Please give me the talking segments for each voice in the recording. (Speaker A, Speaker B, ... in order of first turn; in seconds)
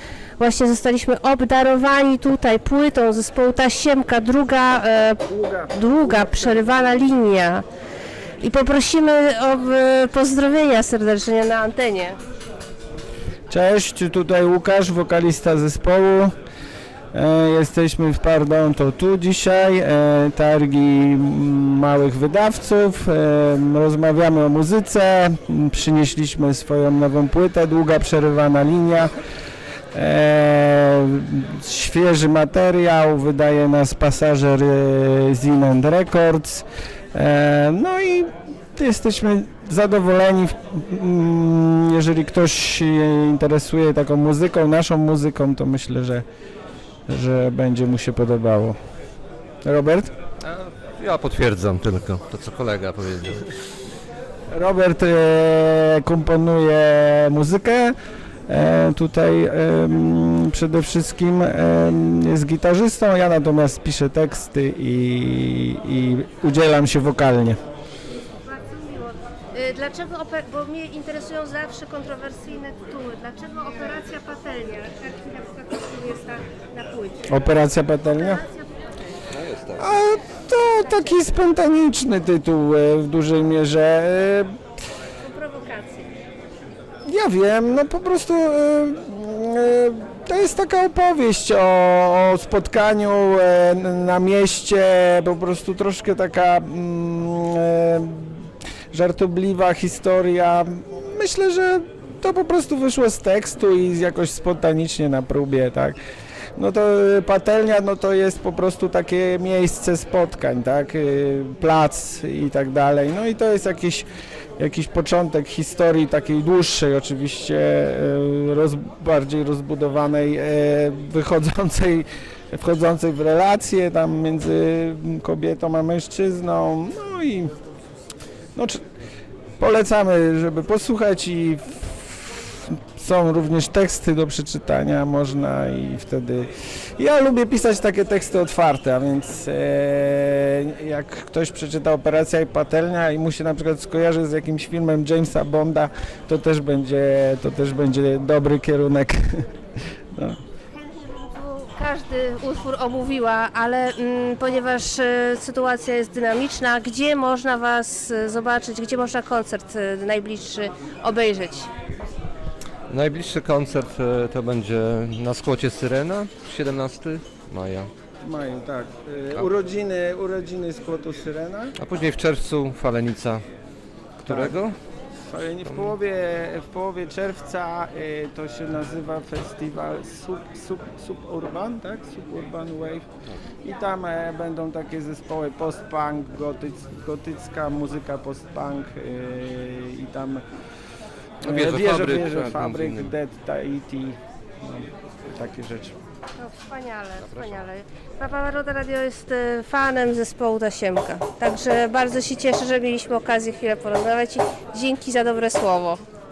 Speaker A: 0.4-7.7, 8.4-12.2, 68.3-78.9, 80.9-81.2, 85.2-86.1, 150.9-161.7, 196.4-206.0
Speaker B: 5.2-7.0, 13.5-16.3, 17.1-29.1, 29.9-46.2, 47.1-48.8, 49.6-50.1, 54.5-58.0, 58.5-67.6, 77.3-78.4, 79.8-84.5, 87.1-106.0, 106.6-114.1, 114.6-127.5, 128.6-128.8, 129.6-149.5, 150.1-150.4, 168.2-171.8, 174.3-174.6, 175.3-183.1, 183.6-190.4, 191.4-196.0
Speaker C: 50.4-53.5, 79.3-79.9, 162.9-167.9, 171.8-173.4, 174.2-174.8, 175.7-176.0, 191.4-193.2, 197.2-197.7